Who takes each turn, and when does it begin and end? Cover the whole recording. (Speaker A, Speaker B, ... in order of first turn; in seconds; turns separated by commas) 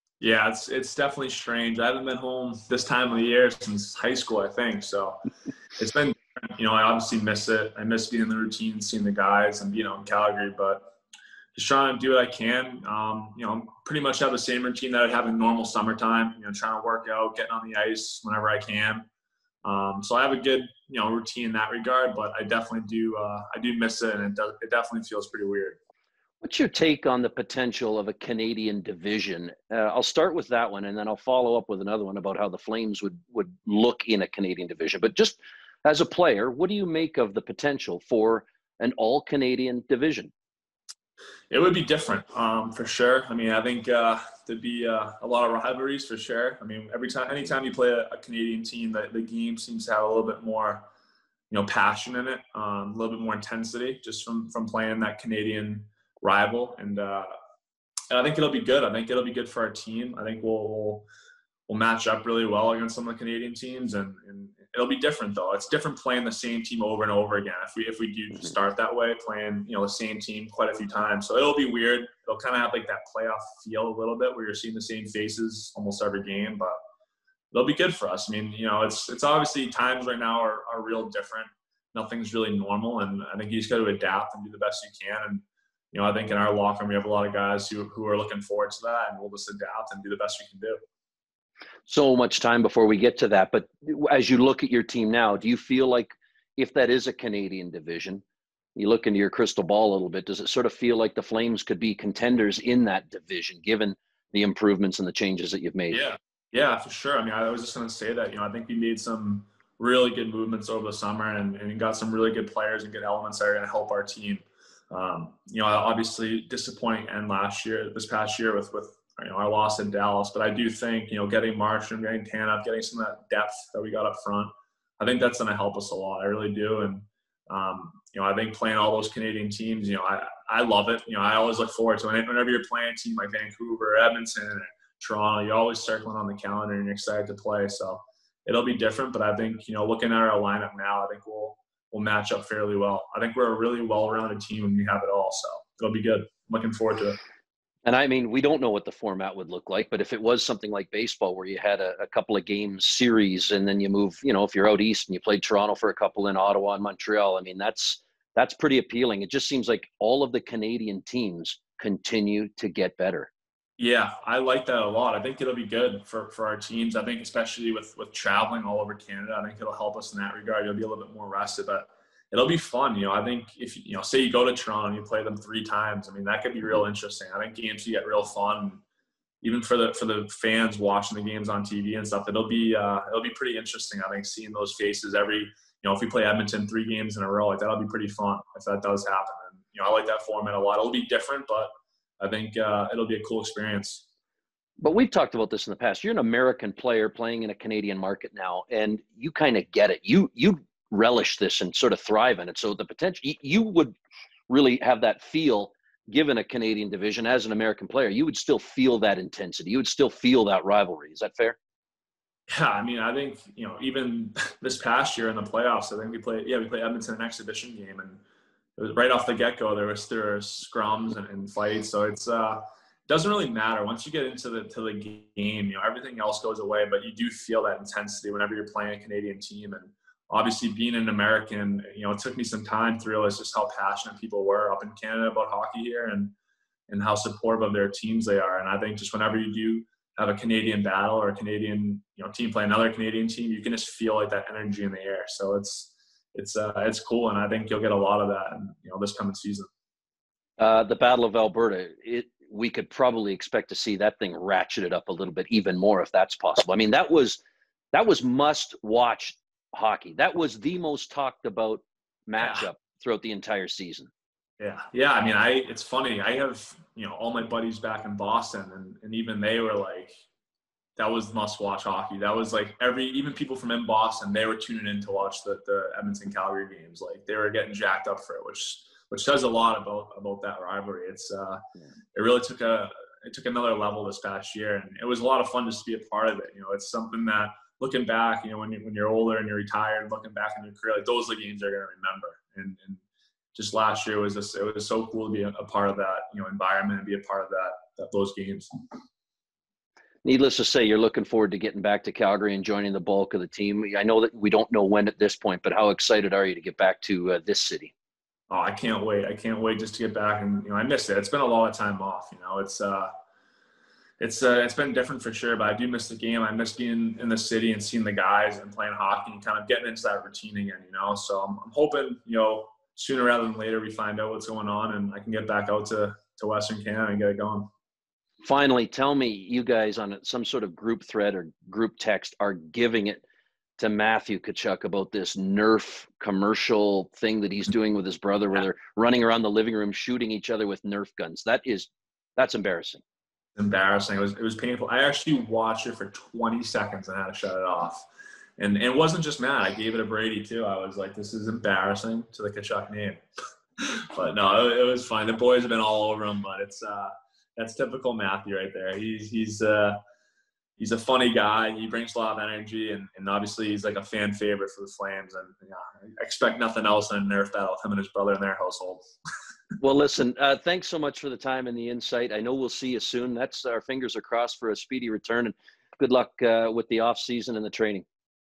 Speaker A: 0.2-5.2, Speaker A: 5.8-10.9, Speaker A: 11.5-19.1, Speaker A: 19.6-25.8, Speaker B: 26.4-40.3, Speaker A: 41.5-50.9, Speaker A: 51.5-57.3, Speaker A: 58.1-61.1, Speaker A: 61.7-76.8, Speaker A: 77.5-90.8, Speaker B: 91.9-98.2, Speaker B: 98.8-106.0, Speaker A: 105.9-147.2, Speaker B: 147.8-163.3, Speaker A: 163.8-178.8, Speaker A: 179.4-194.1, Speaker B: 194.8-203.9, Speaker B: 204.5-211.6, Speaker A: 212.5-218.2, Speaker A: 218.8-236.3, Speaker A: 236.9-249.7, Speaker B: 250.6-257.4, Speaker B: 257.9-264.1, Speaker A: 262.4-262.7, Speaker A: 264.6-270.1, Speaker A: 271.0-281.6, Speaker A: 282.1-293.0, Speaker A: 293.5-298.7, Speaker B: 300.2-307.9, Speaker A: 308.5-313.1, Speaker A: 314.2-327.7, Speaker B: 328.4-333.2, Speaker B: 333.8-343.0, Speaker A: 343.6-348.1, Speaker A: 348.6-353.2, Speaker A: 353.8-360.0, Speaker A: 360.8-369.0, Speaker B: 369.8-378.0